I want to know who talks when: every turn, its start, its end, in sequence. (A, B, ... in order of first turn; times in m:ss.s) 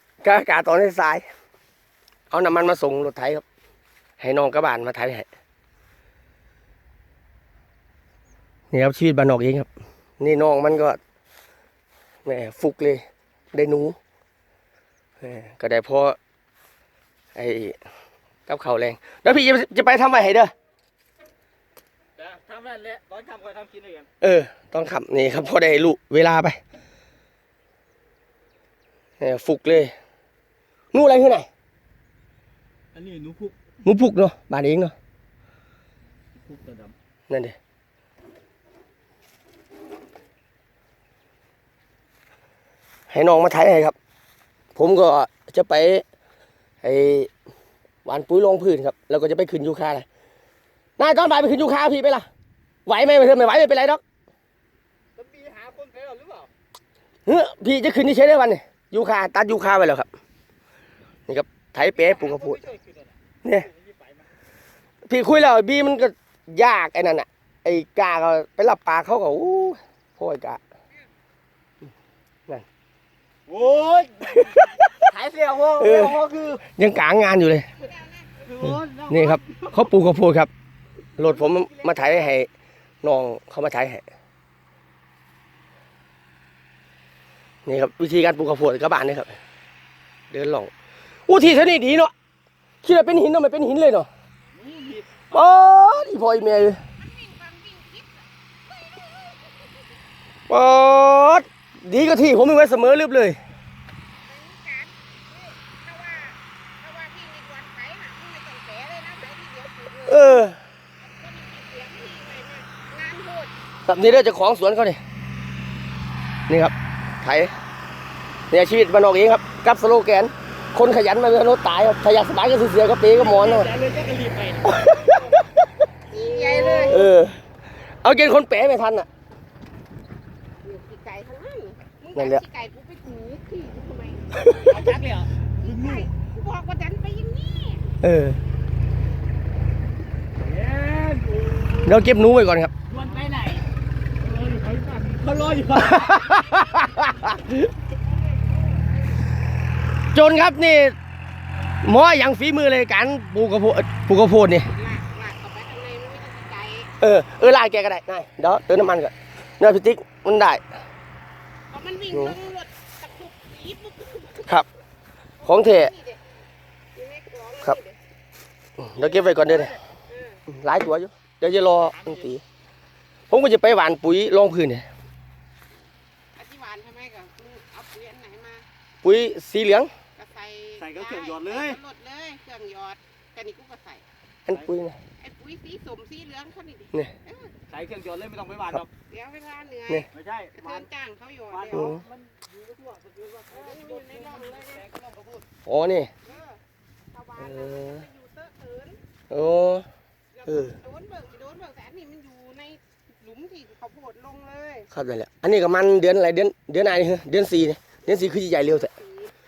0:00.2-0:01.2 A
0:02.3-0:03.4 A
0:04.2-0:05.3 A
0:08.7-0:09.7 A
0:10.2-0:11.0 A
0:12.2-0:14.0 A
0:15.2-0:16.2 A
0:17.4-0:17.8 A
0:18.5-0:20.5 A
0:22.2-0:24.1 B
0:24.2-0:26.6 A
0:29.2-0:29.9 A
0:30.9-0:31.5 A
0:32.9-0:33.6 B
0:33.8-0:34.9 A
0:36.4-0:36.9 B
0:37.3-0:37.6 A
0:43.1-0:44.0 A
0:44.8-0:46.0 A
0:46.8-0:47.3 A
0:48.0-0:50.1 A
0:51.0-0:52.3 A
0:52.9-0:54.0 A
0:55.2-0:56.5 B
0:57.3-1:00.1 A
1:01.3-1:02.6 A
1:02.0-1:03.1 B
1:03.4-1:03.7 A
1:03.7-1:04.3 B
1:05.1-1:10.6 A
1:13.5-1:16.6 B
1:14.4-1:14.8 A
1:15.8-1:17.7 A
1:17.8-1:18.5 C
1:18.4-1:19.9 B
1:19.1-1:20.5 A
1:21.2-1:22.5 A
1:21.2-1:21.9 C
1:23.0-1:24.0 A
1:27.7-1:29.3 A
1:30.3-1:30.7 A
1:31.3-1:32.1 A
1:32.8-1:34.1 A
1:34.6-1:35.4 B
1:35.3-1:36.8 A
1:37.0-1:39.8 C
1:40.5-1:43.4 A
1:44.2-1:50.5 C
1:50.1-1:50.6 A
1:51.0-1:53.5 C
1:53.9-1:55.0 A
1:56.5-1:57.5 A
1:58.5-2:03.7 A
2:03.1-2:05.4 B
2:04.6-2:05.6 A
2:06.1-2:07.1 C
2:06.1-2:07.1 B
2:06.8-2:07.4 A
2:08.0-2:09.1 A
2:10.6-2:15.0 C
2:12.2-2:12.4 A
2:14.4-2:14.7 A
2:14.7-2:16.1 B
2:15.6-2:18.0 C
2:18.0-2:18.4 A
2:20.4-2:21.9 B
2:21.8-2:22.7 A
2:22.9-2:23.7 B
2:24.2-2:26.4 B
2:25.8-2:27.7 A
2:30.1-2:31.0 A
2:31.8-2:34.7 A
2:34.7-2:37.0 C
2:37.0-2:40.6 A
2:41.7-2:44.6 C
2:45.4-2:46.2 C
2:45.4-2:45.9 A
2:47.0-2:48.0 C
2:48.8-2:49.8 A
2:49.2-2:49.8 B
2:50.1-2:50.4 C
2:50.5-2:52.4 A
2:51.9-2:52.3 B
2:53.3-2:54.9 A
2:56.4-2:58.7 C
2:59.0-2:59.9 A
3:00.2-3:04.0 C
3:00.8-3:01.8 B
3:04.5-3:05.0 A
3:05.2-3:07.5 C
3:07.7-3:08.9 B
3:09.1-3:12.0 C
3:10.1-3:10.8 B
3:11.5-3:15.4 B
3:11.7-3:12.0 A
3:13.5-3:15.0 C
3:15.7-3:16.1 A
3:16.2-3:16.6 C
3:17.1-3:19.0 C
3:17.4-3:17.8 A
3:19.3-3:19.9 A
3:20.3-3:24.9 C
3:20.5-3:20.7 A
3:24.9-3:28.9 A
3:28.6-3:29.3 C